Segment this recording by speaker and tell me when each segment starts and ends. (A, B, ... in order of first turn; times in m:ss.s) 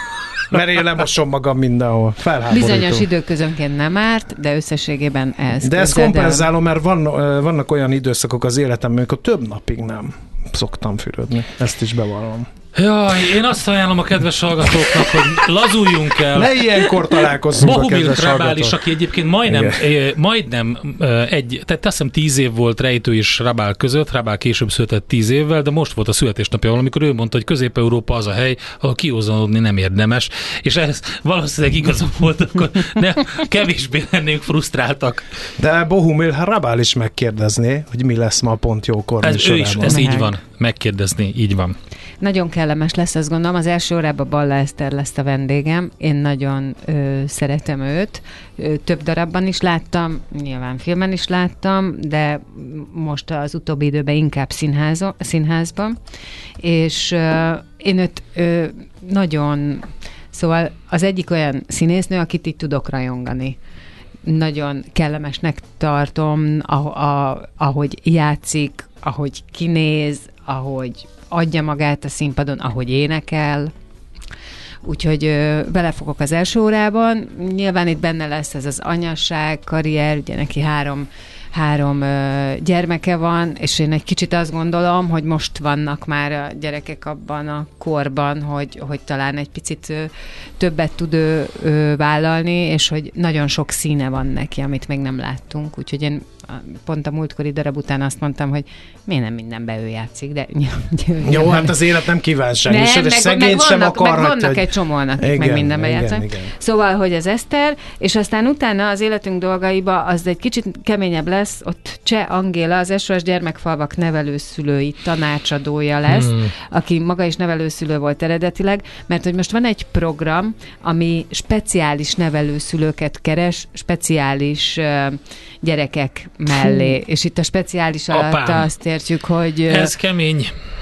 0:00.5-0:03.1 A
0:02.5-0:06.5 B
0:05.6-0:12.5 A
0:12.8-0:16.9 C
0:16.3-0:18.8 A
0:17.6-0:35.2 C
0:19.4-0:19.8 A
0:35.6-0:40.2 A
0:39.2-0:41.8 C
0:39.9-0:40.3 B
0:42.2-0:56.0 B
0:56.6-1:03.6 B
1:04.2-1:13.7 B
1:14.8-1:41.8 B
1:41.2-1:46.5 A
1:42.6-2:09.9 B
1:56.1-1:56.5 C
2:08.1-2:08.7 C
2:09.7-2:10.5 C